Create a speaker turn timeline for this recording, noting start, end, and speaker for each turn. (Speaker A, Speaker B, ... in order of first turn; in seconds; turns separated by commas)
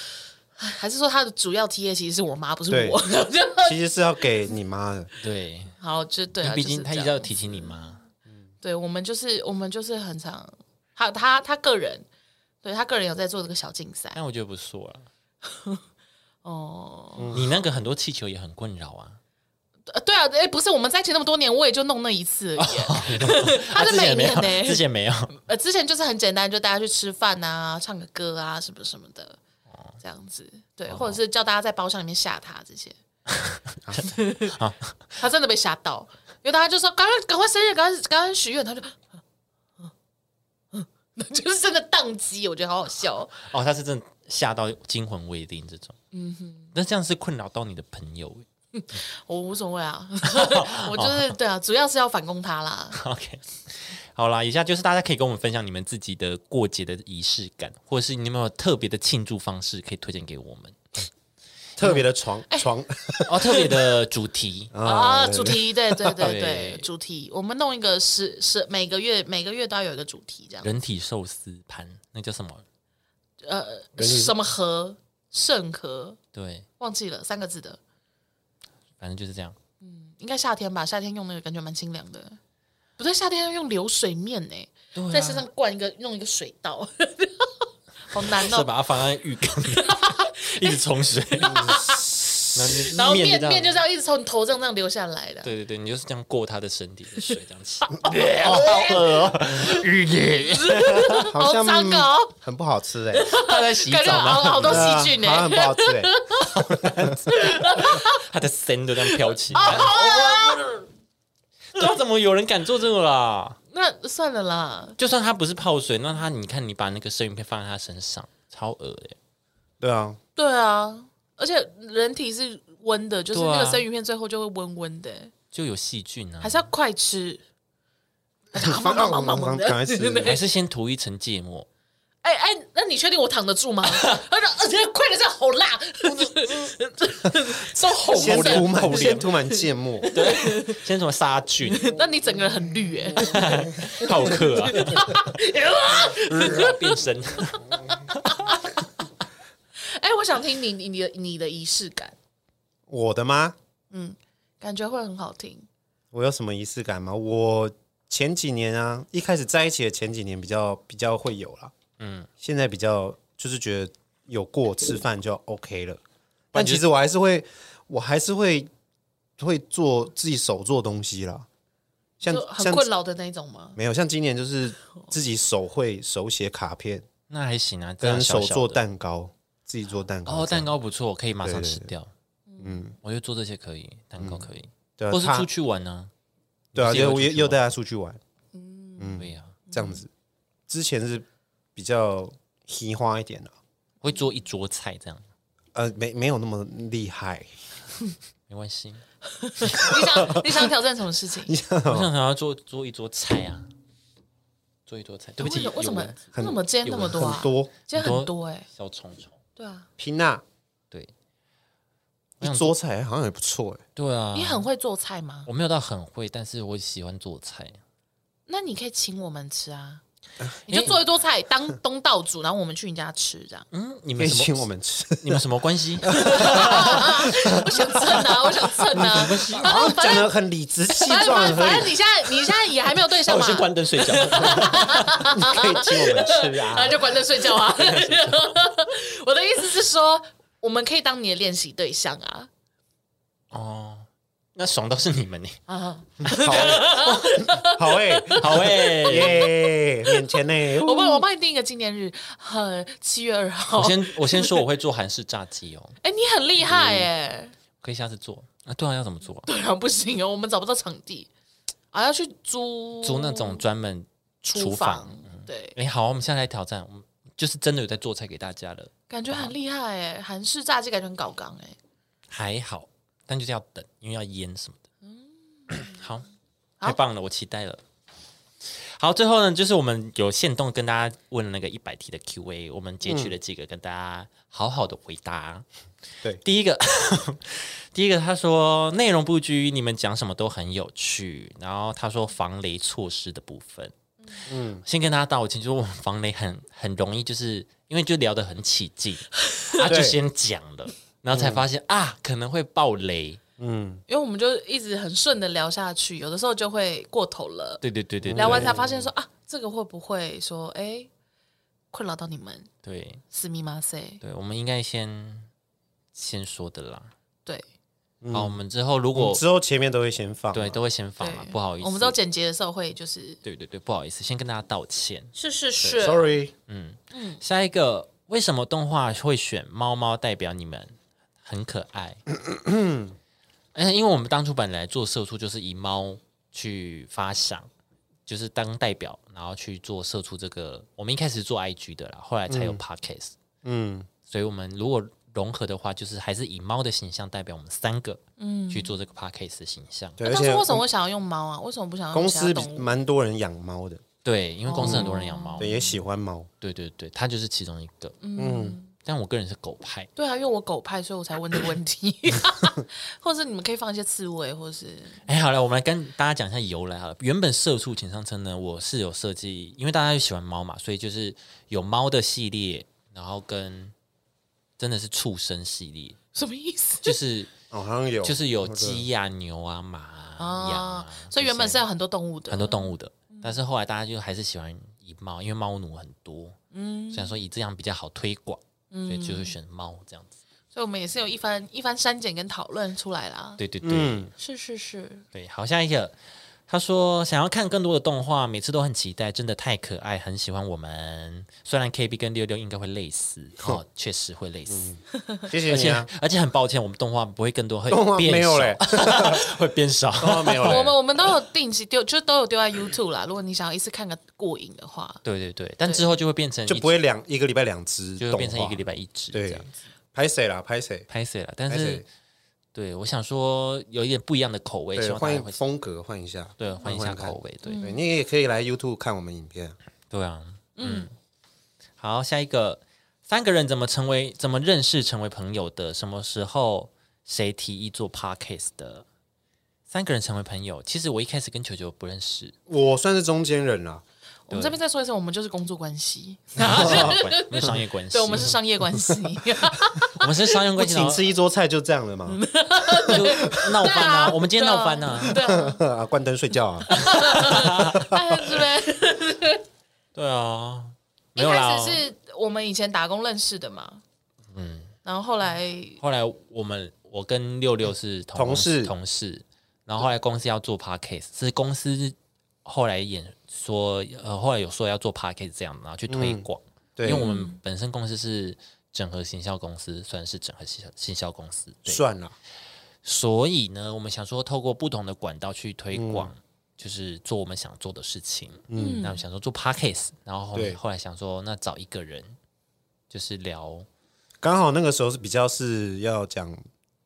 Speaker A: 0.6-3.8, Speaker B: 2.7-3.0, Speaker B: 3.6-5.1, Speaker C: 5.2-5.7, Speaker A: 5.8-7.9, Speaker C: 6.4-8.0, Speaker A: 8.6-12.1, Speaker A: 12.6-14.2, Speaker C: 14.2-15.1, Speaker A: 15.5-15.8, Speaker A: 16.4-17.4, Speaker B: 17.2-17.5, Speaker C: 17.3-19.2, Speaker A: 19.9-29.4, Speaker C: 22.6-25.3, Speaker C: 29.7-30.0, Speaker A: 30.0-33.0, Speaker C: 30.9-31.2, Speaker C: 33.3-35.0, Speaker A: 34.0-34.5, Speaker A: 35.2-39.0, Speaker A: 40.7-43.4, Speaker C: 43.4-46.0, Speaker A: 46.1-46.7, Speaker C: 46.7-48.5, Speaker A: 48.8-53.0, Speaker C: 50.3-51.4, Speaker C: 52.9-60.8, Speaker B: 61.8-63.7, Speaker C: 63.3-64.7, Speaker A: 63.4-63.7, Speaker B: 64.7-66.2, Speaker A: 64.8-70.7, Speaker C: 66.2-66.9, Speaker C: 70.6-72.7, Speaker A: 73.4-76.2, Speaker B: 74.0-74.3, Speaker C: 76.3-76.7, Speaker A: 76.8-77.8, Speaker C: 79.0-79.6, Speaker A: 79.8-82.4, Speaker A: 83.0-87.5, Speaker C: 85.0-85.5, Speaker A: 88.1-88.7, Speaker C: 88.2-91.8, Speaker A: 89.7-95.5, Speaker B: 91.5-92.7, Speaker C: 92.5-93.8, Speaker C: 95.4-101.3, Speaker A: 98.1-99.8, Speaker B: 98.4-99.8, Speaker A: 100.5-102.3, Speaker B: 100.8-103.3, Speaker A: 103.1-106.5, Speaker C: 103.3-105.0, Speaker B: 104.6-106.2, Speaker C: 106.4-110.7, Speaker B: 106.7-107.2, Speaker A: 107.3-108.2, Speaker A: 109.5-110.8, Speaker C: 111.7-113.6, Speaker A: 113.7-115.0, Speaker C: 115.0-119.2, Speaker B: 119.8-120.2, Speaker A: 120.4-125.3, Speaker C: 123.3-123.8, Speaker C: 125.5-126.7, Speaker A: 126.4-127.4, Speaker A: 128.5-130.4, Speaker B: 128.6-130.4, Speaker C: 130.2-131.7, Speaker A: 132.2-140.8, Speaker C: 133.9-134.2, Speaker C: 136.1-136.5, Speaker C: 138.0-139.3, Speaker B: 138.1-140.1, Speaker C: 140.1-141.9, Speaker A: 141.7-147.0, Speaker C: 143.2-145.3, Speaker C: 145.9-148.6, Speaker A: 148.3-148.7, Speaker A: 149.8-152.2, Speaker B: 152.9-153.6, Speaker A: 153.9-155.7, Speaker B: 156.1-161.7, Speaker C: 162.0-162.3, Speaker B: 162.4-166.0, Speaker C: 166.5-166.8, Speaker B: 166.5-168.7, Speaker B: 169.4-171.5, Speaker B: 172.2-172.9, Speaker A: 172.3-173.8, Speaker B: 173.8-177.1, Speaker C: 177.3-178.8, Speaker B: 178.0-180.7, Speaker C: 180.3-182.1, Speaker B: 181.4-181.9, Speaker A: 182.5-182.8, Speaker B: 182.6-182.9, Speaker C: 183.0-186.1, Speaker B: 184.2-184.4, Speaker B: 185.0-185.5, Speaker C: 186.7-187.6, Speaker B: 186.8-188.2, Speaker A: 188.5-190.0, Speaker B: 189.0-190.1, Speaker C: 189.2-189.6, Speaker B: 190.7-193.5, Speaker C: 194.0-195.3, Speaker B: 195.8-197.5, Speaker C: 198.5-199.0, Speaker A: 199.3-201.6, Speaker B: 199.7-200.6, Speaker B: 201.5-202.1, Speaker C: 201.9-203.7, Speaker C: 204.9-206.3, Speaker A: 205.4-208.7, Speaker B: 206.2-207.7, Speaker C: 206.8-207.4, Speaker C: 207.9-209.3, Speaker A: 209.6-209.9, Speaker B: 210.0-210.4, Speaker C: 212.4-212.7, Speaker B: 212.4-213.8, Speaker C: 214.0-214.7, Speaker A: 214.3-215.5, Speaker C: 215.5-217.8, Speaker A: 218.5-220.0, Speaker A: 220.7-223.7, Speaker C: 220.7-221.0, Speaker C: 223.7-224.7, Speaker B: 224.2-225.5, Speaker C: 225.2-227.3, Speaker B: 226.1-228.3, Speaker A: 226.1-230.3, Speaker B: 228.9-231.9, Speaker C: 228.9-229.9, Speaker A: 230.9-242.5, Speaker C: 233.1-235.3, Speaker B: 235.2-237.0, Speaker C: 237.7-238.6, Speaker C: 243.5-245.6, Speaker A: 245.7-250.2, Speaker C: 246.2-247.4, Speaker B: 246.3-251.2, Speaker C: 248.3-249.5, Speaker A: 250.8-254.6, Speaker C: 253.8-256.0, Speaker A: 256.0-257.5, Speaker B: 256.6-257.1, Speaker C: 257.8-259.5, Speaker A: 259.5-261.3, Speaker A: 261.9-263.6, Speaker C: 263.0-269.6, Speaker A: 264.4-265.8, Speaker A: 269.1-271.8, Speaker C: 272.3-274.8, Speaker A: 275.1-275.9, Speaker C: 275.7-276.3, Speaker C: 276.8-277.8, Speaker C: 278.6-285.6, Speaker B: 283.1-283.3, Speaker C: 286.4-293.9, Speaker B: 294.5-294.8, Speaker C: 294.9-303.4, Speaker A: 299.5-299.9, Speaker B: 299.8-300.2, Speaker B: 301.3-301.6, Speaker B: 303.6-304.0, Speaker A: 304.1-307.8, Speaker C: 307.8-308.8, Speaker B: 308.2-309.1, Speaker A: 308.4-311.1, Speaker A: 311.9-312.7, Speaker C: 312.8-313.2, Speaker A: 313.3-314.2, Speaker C: 314.2-315.5, Speaker C: 316.1-317.1, Speaker B: 318.2-318.6, Speaker C: 318.3-319.4, Speaker B: 319.1-320.8, Speaker C: 320.5-322.2, Speaker A: 321.2-323.4, Speaker C: 323.4-326.2, Speaker A: 325.4-326.3, Speaker B: 326.0-326.5, Speaker C: 326.7-332.2, Speaker A: 327.1-327.4, Speaker B: 332.3-333.2, Speaker C: 333.8-337.7, Speaker C: 338.3-343.3, Speaker B: 342.5-342.8, Speaker B: 343.6-344.1, Speaker C: 344.3-350.2, Speaker A: 348.4-348.9, Speaker B: 350.2-350.8, Speaker A: 350.2-352.9, Speaker B: 352.1-354.0, Speaker C: 354.2-355.8, Speaker A: 354.7-356.0, Speaker B: 354.8-356.5, Speaker C: 356.6-358.2, Speaker A: 358.2-358.9, Speaker B: 358.4-358.8, Speaker C: 359.0-360.1, Speaker A: 360.2-365.2, Speaker C: 365.3-373.9, Speaker C: 374.8-376.2, Speaker A: 376.4-377.1, Speaker C: 377.0-377.5, Speaker B: 377.7-379.1, Speaker C: 378.2-381.9, Speaker A: 380.4-383.6, Speaker C: 382.5-386.6, Speaker A: 386.7-387.4, Speaker C: 387.1-390.3, Speaker A: 388.9-389.5, Speaker A: 390.7-393.6, Speaker C: 393.6-394.3, Speaker B: 393.8-394.3, Speaker A: 394.4-395.2, Speaker C: 395.3-396.1, Speaker C: 396.7-404.9, Speaker B: 404.7-406.1, Speaker C: 405.5-410.9, Speaker B: 407.9-409.4, Speaker B: 410.2-410.9, Speaker A: 410.6-415.2, Speaker C: 415.2-416.9, Speaker B: 416.7-421.1, Speaker C: 418.2-419.7, Speaker C: 421.1-422.1, Speaker B: 421.7-422.0, Speaker C: 422.7-425.6, Speaker B: 425.0-429.8, Speaker C: 426.6-427.8, Speaker A: 427.6-428.0, Speaker C: 430.1-431.1, Speaker A: 430.8-431.1, Speaker C: 432.0-439.1, Speaker C: 439.9-442.6, Speaker B: 442.7-444.0, Speaker A: 444.5-450.3, Speaker C: 444.5-444.8, Speaker C: 446.6-448.6, Speaker B: 446.7-447.1, Speaker C: 450.1-451.3, Speaker B: 450.8-452.4, Speaker A: 452.3-455.8, Speaker C: 453.0-455.4, Speaker B: 455.3-458.2, Speaker A: 456.9-459.6, Speaker C: 457.3-458.1, Speaker C: 460.1-462.0, Speaker A: 461.4-464.0, Speaker C: 464.5-464.9, Speaker A: 465.0-466.0, Speaker C: 466.0-482.0, Speaker B: 468.4-468.9, Speaker B: 476.1-476.4, Speaker B: 477.0-477.3, Speaker A: 477.1-477.6, Speaker B: 481.9-482.4, Speaker C: 483.0-492.4, Speaker B: 485.9-486.3, Speaker B: 488.7-489.0, Speaker A: 488.8-489.2, Speaker B: 490.5-490.8, Speaker C: 493.1-493.9, Speaker B: 494.4-496.6